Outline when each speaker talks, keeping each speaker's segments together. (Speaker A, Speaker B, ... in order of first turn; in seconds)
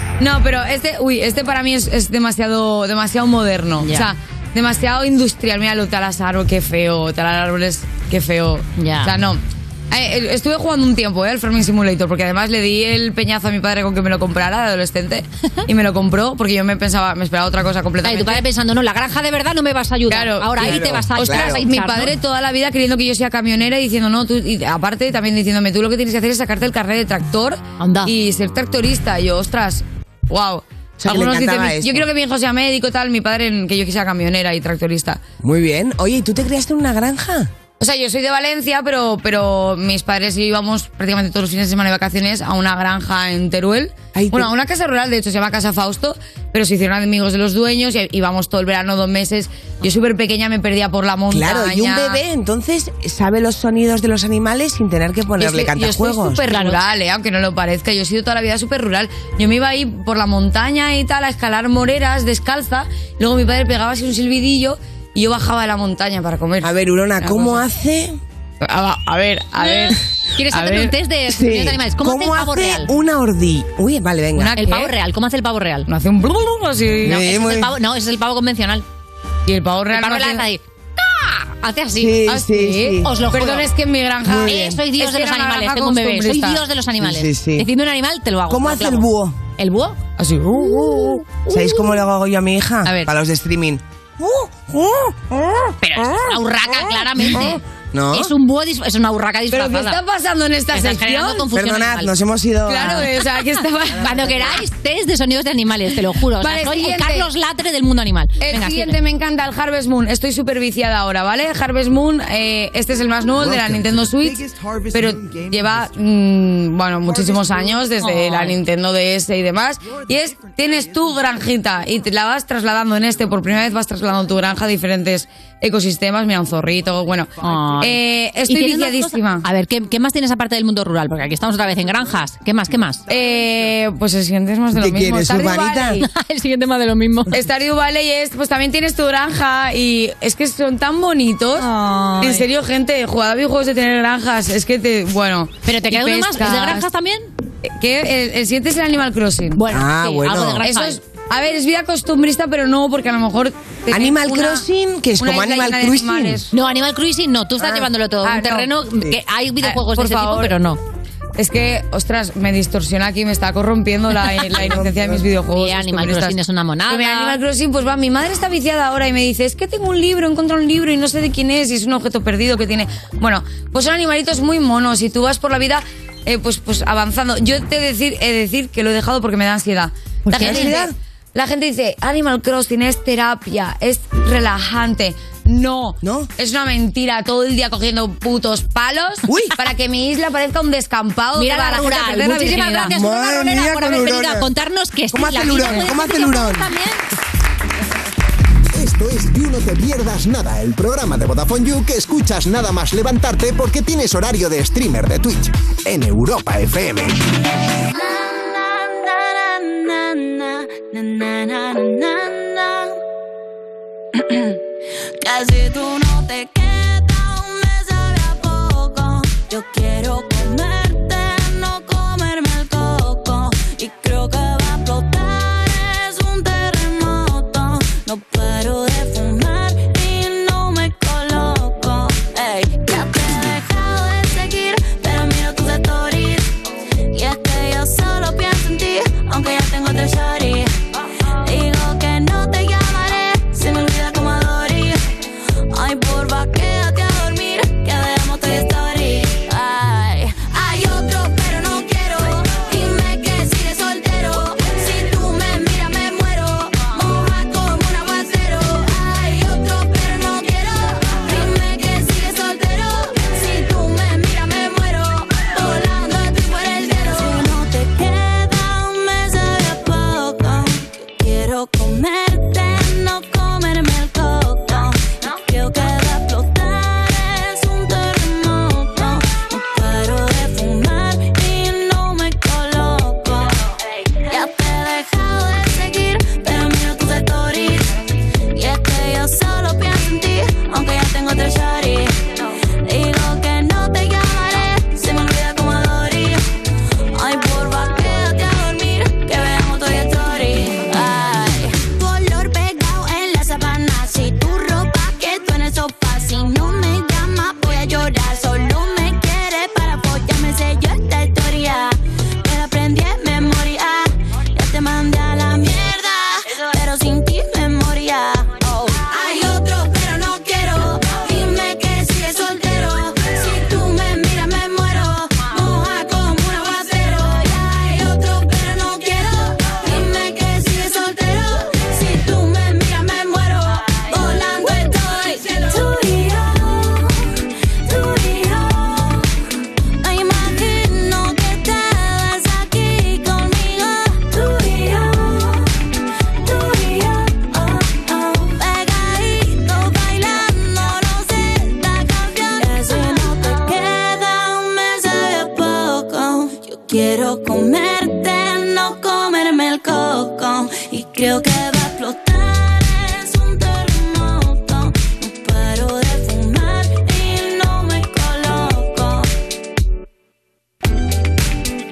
Speaker A: 0.2-18.4, 20.1-35.2, 37.8-52.2, 55.4-67.6, 68.6-70.9, 74.4-74.9, 75.9-77.2, 79.5-80.4, 82.3-86.6, 90.2-91.4, 99.5-101.5, 102.7-104.6, 106.4-107.3, 108.4-129.4, 133.1-136.0, 137.3-141.7, 142.2-146.8, 147.7-149.6, 150.6-154.6, 155.2-156.5, 158.2-158.7, 159.6-160.6, 161.4-166.4, 166.9-192.9
Speaker B: 3.8-4.1, 8.8-9.1, 18.0-22.1, 27.8-28.1, 56.5-56.8, 69.6-72.9, 74.5-75.9, 77.1-78.8, 79.9-82.4, 83.0-83.7, 84.4-89.1, 89.6-90.0, 92.8-93.1, 95.8-97.6, 98.1-100.0, 100.7-102.1, 102.8-103.0, 104.0-109.0, 118.0-118.6, 127.4-133.1, 135.9-137.4, 141.6-142.5, 145.7-147.3, 149.6-151.0, 156.5-160.8, 165.6-167.4, 180.3-180.8, 191.4-197.0
Speaker C: 20.6-21.6, 31.0-32.1, 35.4-37.5, 44.1-44.5, 51.3-56.5, 66.6-68.2, 71.3-74.6, 77.0-77.7, 82.0-83.1, 84.3-84.8, 87.0-87.7, 88.5-89.4, 90.9-96.4, 97.2-98.3, 101.5-103.1, 134.7-136.0, 149.7-150.7, 153.9-156.4, 164.6-165.3, 180.3-180.9, 186.0-186.3, 189.3-189.5, 192.9-194.5, 195.1-196.7
Speaker D: 198.7-207.2
Speaker E: 209.8-212.7, 215.2-236.5, 237.1-240.7, 241.4-245.0, 245.7-287.9, 288.6-296.4, 297.2-337.1, 337.9-339.2, 340.0-345.6, 346.4-369.3